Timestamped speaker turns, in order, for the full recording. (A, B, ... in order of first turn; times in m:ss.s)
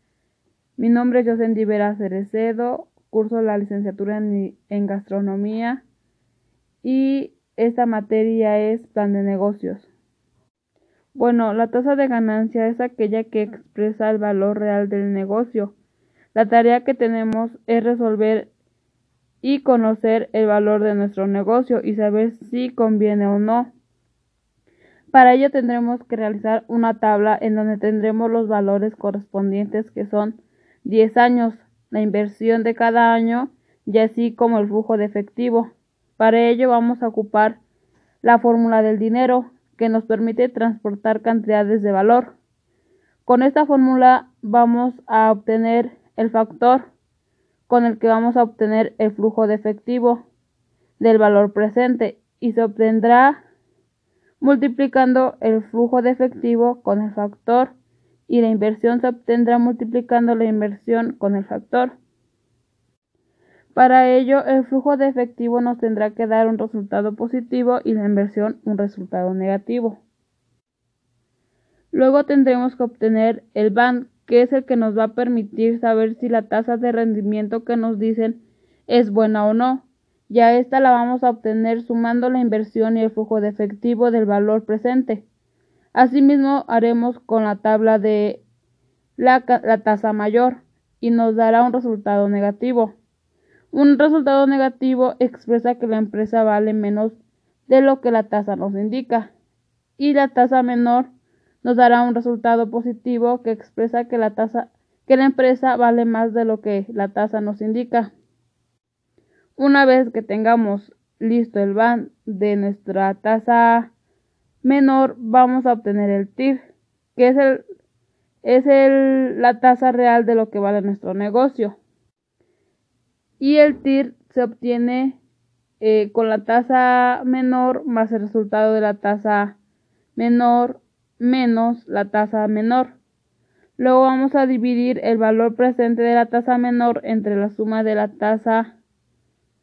0:00.8-0:05.8 A
0:06.8-0:09.9 A
0:11.1-0:15.7 A
0:16.3-0:18.5 A
0:19.4-0:23.7 A
0:25.1-0:37.6 A
0:38.2-0:42.3 A
0:43.2-0:46.8 A
0:47.7-0:50.2 A
0:51.0-0:53.4 A
0:54.4-0:57.7 A
0:58.3-1:01.9 A
1:03.7-1:10.0 A
1:11.9-1:25.2 A
1:25.9-1:28.4 A
1:29.2-1:32.9 A
1:33.7-1:37.2 A
1:37.7-1:39.3 A
1:40.0-1:41.1 A
1:41.6-1:48.1 A
1:49.6-1:53.9 A
1:54.6-1:57.6 A
1:58.4-2:01.8 A
2:03.4-2:05.2 A
2:05.8-2:09.6 A
2:10.2-2:12.9 A
2:13.8-2:18.7 A